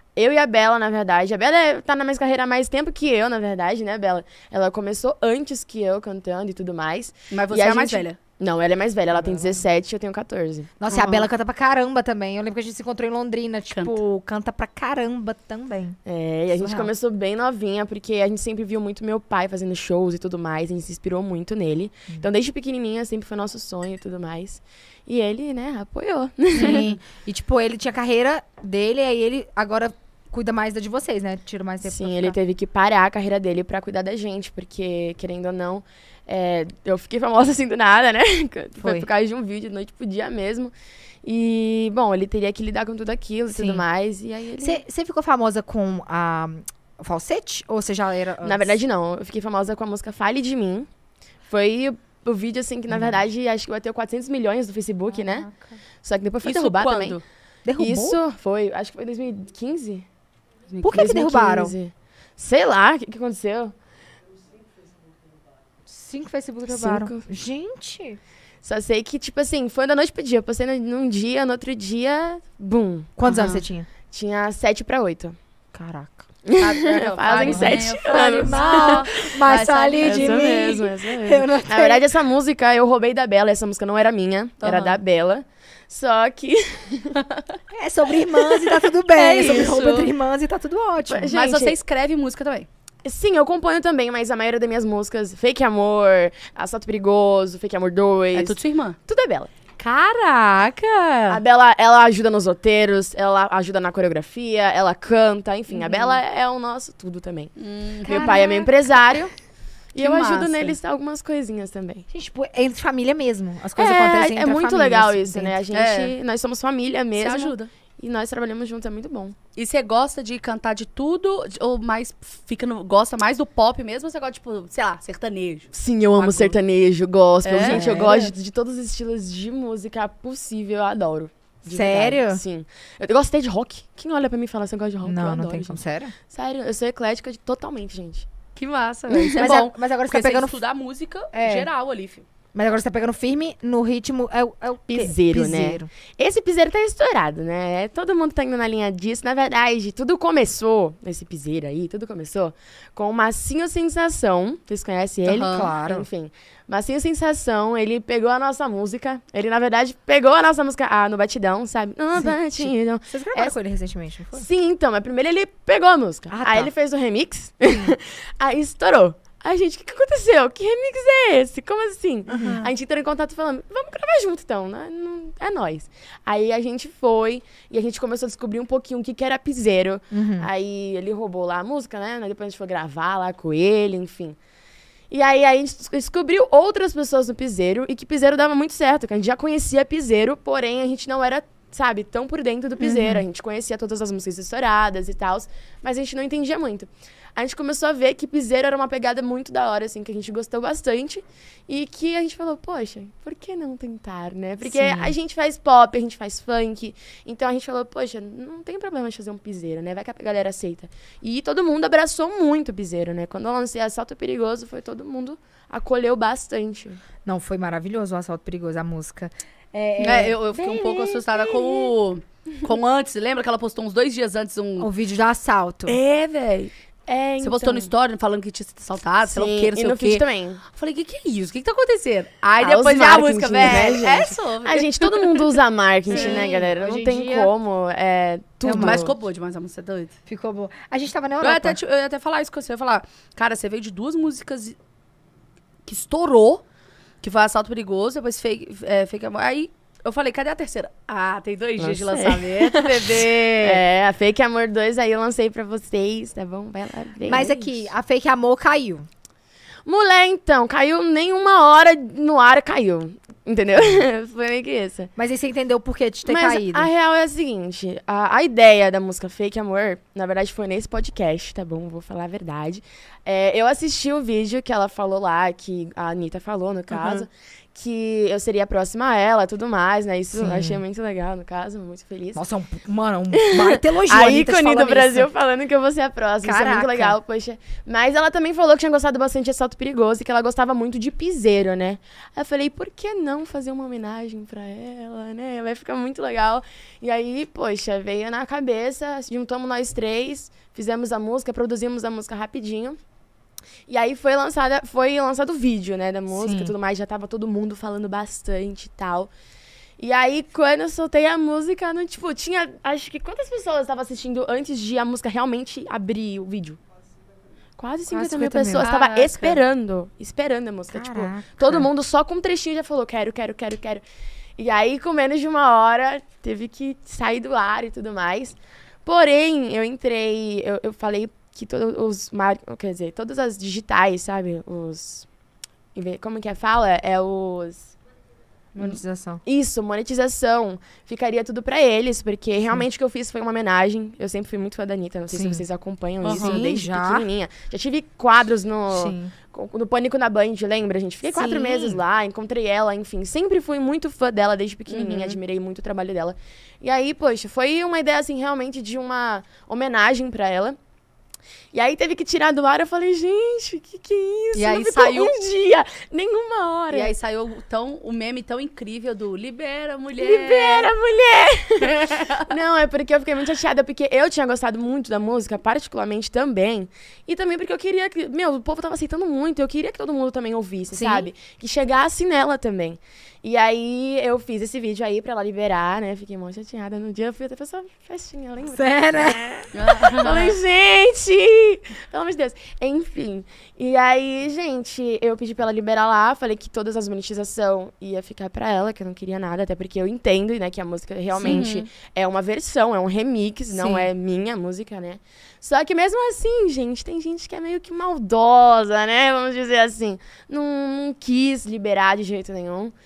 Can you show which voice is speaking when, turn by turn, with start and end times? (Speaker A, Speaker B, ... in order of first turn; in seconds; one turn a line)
Speaker A: 0.2-10.8
Speaker B: 7.3-8.2
Speaker C: 9.2-9.6
Speaker C: 10.8-16.0
Speaker B: 10.9-11.2
Speaker B: 13.7-14.0
Speaker A: 16.1-26.9
Speaker C: 16.6-16.9
Speaker C: 26.6-32.4
Speaker A: 31.9-40.7
Speaker C: 38.8-39.1
Speaker A: 41.2-44.8
Speaker C: 43.5-43.8
Speaker C: 44.6-48.8
Speaker A: 48.4-50.9
Speaker A: 51.5-55.5
Speaker C: 52.9-53.2
Speaker C: 55.1-55.8
Speaker A: 56.0-57.2
Speaker B: 56.4-57.2
Speaker C: 57.6-58.2
Speaker A: 57.8-60.1
Speaker B: 60.7-61.0
Speaker C: 60.8-61.8
Speaker A: 60.9-63.7
Speaker C: 65.9-68.2
Speaker A: 66.7-67.2
Speaker A: 68.6-73.1
Speaker C: 73.2-73.9
Speaker B: 73.2-73.6
Speaker A: 74.1-75.4
Speaker C: 75.7-76.2
Speaker A: 76.5-79.1
Speaker B: 76.6-80.6
Speaker C: 77.3-82.0
Speaker A: 80.0-87.2
Speaker B: 84.6-85.0
Speaker C: 87.7-91.3
Speaker B: 88.6-90.1
Speaker A: 91.1-91.8
Speaker B: 91.3-92.7
Speaker A: 93.0-99.5
Speaker B: 98.3-99.0
Speaker B: 99.8-101.4
Speaker A: 101.3-109.3
Speaker B: 105.8-106.2
Speaker B: 107.6-108.4
Speaker C: 108.1-108.7
Speaker A: 109.9-112.1
Speaker B: 110.0-110.8
Speaker C: 112.1-115.6
Speaker A: 113.8-119.4
Speaker B: 115.7-116.2
Speaker B: 117.2-117.7
Speaker B: 119.6-126.6
Speaker A: 125.7-138.3
Speaker B: 127.5-128.3
Speaker C: 127.7-128.2
Speaker C: 131.7-132.4
Speaker C: 135.0-136.1
Speaker B: 138.6-142.2
Speaker A: 139.1-139.6
Speaker C: 139.4-140.6
Speaker C: 141.3-141.7
Speaker C: 142.5-145.9
Speaker A: 144.9-163.6
Speaker C: 155.3-156.1
Speaker B: 155.3-155.7
Speaker C: 162.2-164.5
Speaker A: 164.3-184.4
Speaker C: 166.3-166.7
Speaker C: 167.7-167.9
Speaker C: 172.3-172.7
Speaker C: 180.1-180.5
Speaker A: 185.1-217.0
Speaker C: 192.8-193.2
Speaker C: 204.7-205.2
Speaker C: 217.2-221.3
Speaker B: 220.0-224.9
Speaker C: 224.8-226.0
Speaker B: 225.9-226.7
Speaker A: 226.1-226.4
Speaker A: 227.1-227.9
Speaker B: 227.4-235.6
Speaker A: 229.3-230.6
Speaker A: 232.6-239.1
Speaker B: 236.1-236.6
Speaker C: 236.1-237.5
Speaker C: 238.6-239.1
Speaker B: 238.7-240.1
Speaker C: 240.3-241.8
Speaker B: 241.4-244.8
Speaker B: 245.8-246.6
Speaker B: 247.2-253.8
Speaker A: 251.8-257.8
Speaker C: 257.3-259.1
Speaker A: 259.9-265.1
Speaker C: 265.2-266.9
Speaker A: 266.2-282.4
Speaker C: 276.9-277.3
Speaker C: 280.4-280.8
Speaker C: 282.4-285.3
Speaker A: 283.4-303.0
Speaker C: 286.4-287.2
Speaker A: 303.9-309.3
Speaker C: 306.3-306.7
Speaker A: 310.0-316.8
Speaker A: 317.8-324.0
Speaker C: 318.1-318.9
Speaker B: 318.8-319.6
Speaker C: 320.9-321.9
Speaker A: 324.6-335.3
Speaker A: 335.9-337.9
Speaker C: 338.8-339.4
Speaker A: 339.5-360.8
Speaker C: 345.3-345.6
Speaker B: 346.2-346.6
Speaker C: 346.3-347.3
Speaker C: 348.9-349.3
Speaker C: 351.3-352.0
Speaker B: 354.9-355.4
Speaker A: 361.7-367.1
Speaker B: 364.6-365.4
Speaker B: 366.9-370.9
Speaker A: 370.2-412.9
Speaker B: 371.9-372.4
Speaker C: 380.9-381.3
Speaker C: 388.7-389.4
Speaker B: 389.7-390.5
Speaker B: 401.4-401.9
Speaker C: 401.4-401.7
Speaker C: 403.7-404.1